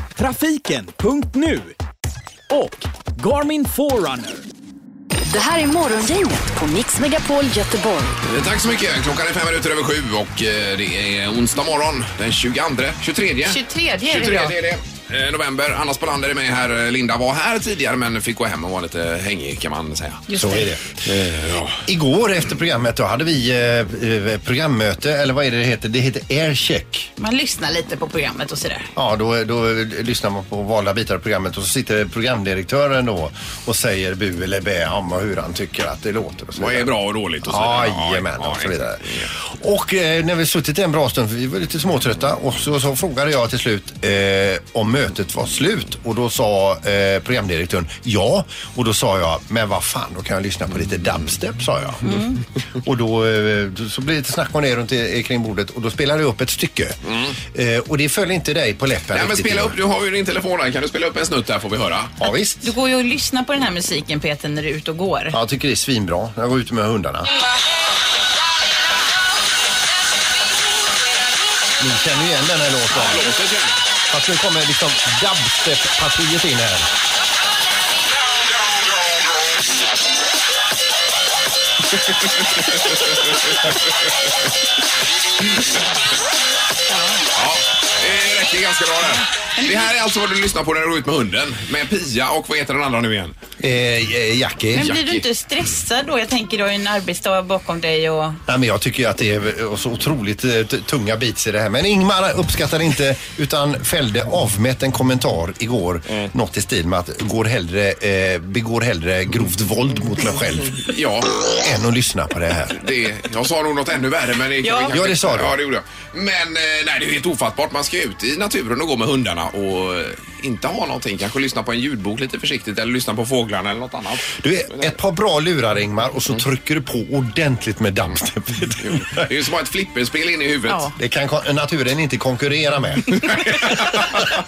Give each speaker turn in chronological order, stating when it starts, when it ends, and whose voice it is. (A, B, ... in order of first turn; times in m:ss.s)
0:00.2-0:01.8 A
0:02.5-0:04.4 A
0:05.3-0:08.2 B
0:08.2-0:20.3 C
0:13.4-0:14.6 D
0:20.3-0:20.6 D
0:20.4-0:21.1 E
0:21.1-0:21.8 C
0:21.8-0:27.1 E
0:27.2-0:28.9 D
0:29.0-0:36.9 E
0:36.6-0:39.3 C
0:37.4-0:59.8 E
0:52.1-0:52.4 D
0:57.1-0:57.4 C
0:59.1-1:02.2 C
1:02.2-1:02.6 E
1:02.6-1:05.4 D
1:05.3-1:07.3 E
1:11.8-1:13.3 E
1:12.9-1:13.8 C
1:14.1-1:16.9 E
1:26.9-1:27.2 D
1:27.4-1:33.4 C
1:29.6-1:29.9 D
1:33.6-1:35.0 E
1:34.7-1:38.4 D
1:34.8-1:35.2 C
1:38.5-1:50.9 E
1:50.9-1:51.3 C
1:51.5-1:52.8 E
1:52.8-2:04.9 C
1:54.6-1:54.9 D
1:54.9-1:55.6 E
2:04.4-2:09.3 E
2:08.8-2:10.9 C
2:11.0-2:13.7 E
2:13.4-2:14.0 C